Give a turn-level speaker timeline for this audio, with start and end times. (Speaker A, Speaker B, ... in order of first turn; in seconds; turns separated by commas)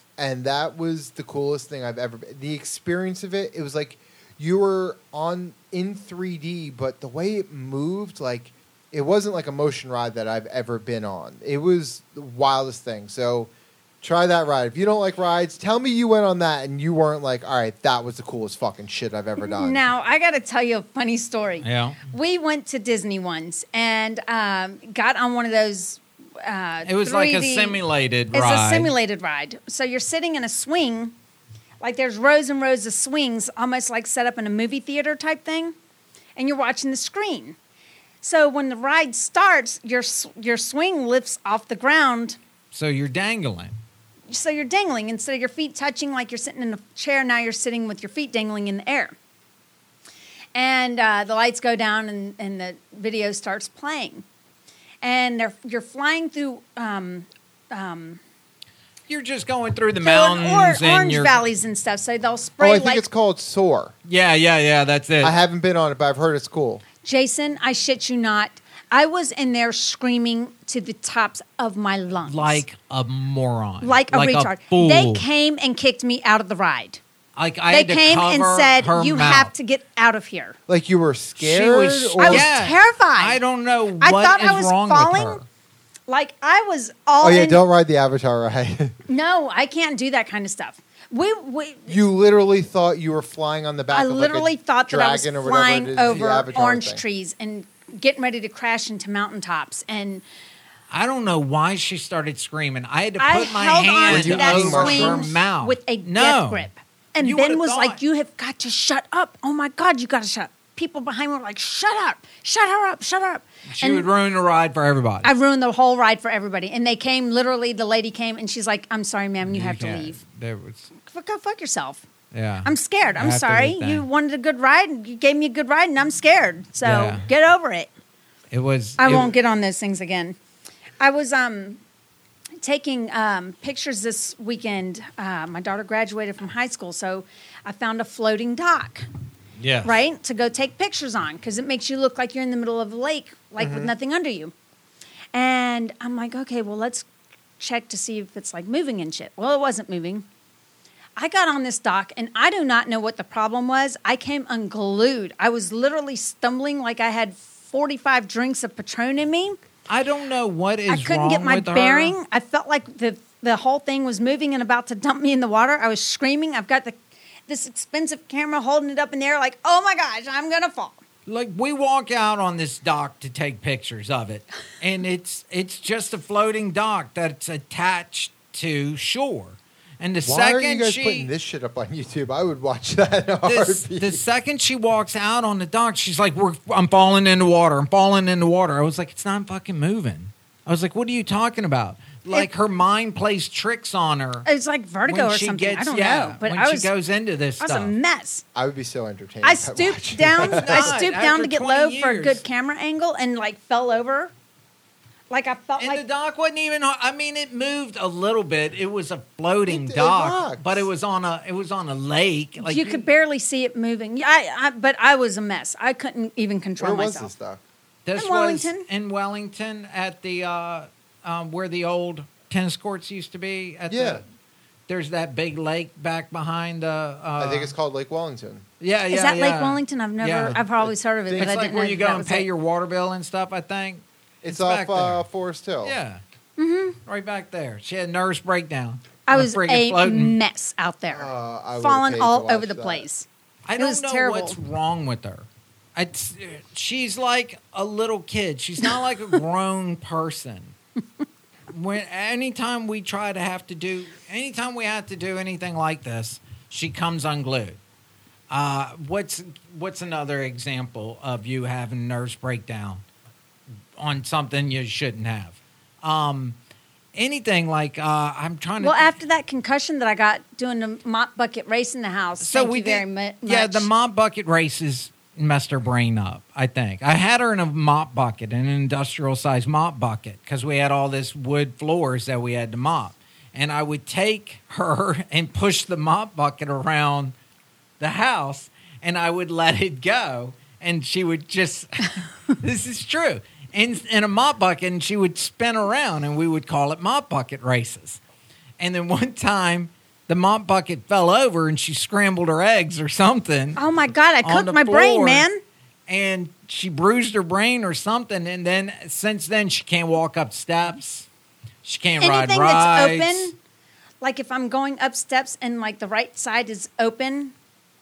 Speaker A: 0.2-19.8, Speaker B: 19.4-27.8, Speaker C: 21.6-22.0, Speaker C: 26.9-28.9, Speaker B: 28.3-31.1, Speaker B: 31.8-35.7, Speaker B: 36.4-37.6, Speaker B: 38.2-42.4, Speaker C: 42.7-43.7, Speaker B: 44.3-49.1, Speaker B: 50.5-54.2, Speaker B: 55.0-58.2, Speaker C: 59.1-61.4, Speaker B: 60.0-63.0, Speaker A: 62.6-63.9, Speaker C: 64.0-65.4, Speaker A: 65.2-66.8, Speaker B: 67.0-72.6, Speaker C: 72.3-75.2, Speaker B: 73.8-77.0, Speaker C: 77.4-79.5, Speaker B: 77.7-80.5, Speaker A: 80.7-82.5, Speaker C: 81.4-85.4, Speaker B: 82.2-83.4, Speaker B: 84.0-85.4, Speaker B: 86.1-87.6, Speaker A: 87.2-89.0, Speaker B: 89.1-92.0, Speaker A: 91.9-97.0, Speaker B: 93.9-100.2, Speaker C: 100.9-106.7, Speaker B: 103.2-114.1, Speaker A: 104.1-105.3, Speaker C: 107.2-108.0, Speaker C: 113.7-115.3, Speaker B: 115.2-120.2, Speaker C: 119.5-120.9, Speaker B: 121.0-122.0, Speaker C: 122.3-124.0, Speaker B: 122.6-127.9, Speaker C: 126.8-127.3, Speaker C: 128.5-129.3, Speaker B: 129.0-130.4, Speaker B: 131.0-131.8, Speaker B: 132.6-139.1, Speaker C: 139.6-140.0, Speaker B: 139.8-144.5, Speaker A: 143.6-143.9, Speaker B: 145.3-147.1, Speaker B: 147.6-150.2, Speaker B: 151.2-159.6, Speaker C: 159.9-162.1, Speaker B: 160.9-171.0, Speaker C: 171.2-181.3, Speaker A: 180.2-184.2, Speaker C: 183.4-194.4, Speaker B: 194.4-196.9, Speaker C: 195.1-197.9, Speaker B: 197.6-198.4, Speaker A: 198.5-201.0, Speaker B: 199.4-204.3, Speaker C: 200.3-202.4, Speaker B: 205.3-206.0, Speaker C: 205.8-213.0, Speaker A: 209.7-210.9, Speaker B: 212.6-217.3, Speaker A: 216.8-217.6, Speaker C: 218.1-224.2, Speaker B: 218.2-218.8, Speaker A: 223.9-224.2, Speaker C: 224.9-227.7, Speaker A: 227.4-228.6, Speaker C: 228.8-230.6, Speaker B: 229.1-232.5, Speaker C: 231.3-235.2, Speaker A: 234.4-236.0, Speaker C: 235.8-236.2, Speaker B: 236.6-237.0, Speaker C: 237.1-240.4, Speaker B: 239.2-244.6, Speaker A: 241.1-243.1, Speaker C: 243.7-250.7, Speaker C: 251.7-257.8, Speaker C: 258.5-263.0, Speaker C: 264.0-266.6, Speaker C: 267.1-269.1, Speaker B: 268.8-273.9, Speaker C: 272.4-287.3, Speaker C: 288.0-298.2, Speaker C: 298.8-303.8, Speaker B: 303.8-305.6, Speaker C: 304.4-305.5, Speaker C: 306.1-311.3, Speaker C: 311.8-313.5, Speaker B: 312.2-313.6, Speaker B: 314.2-317.5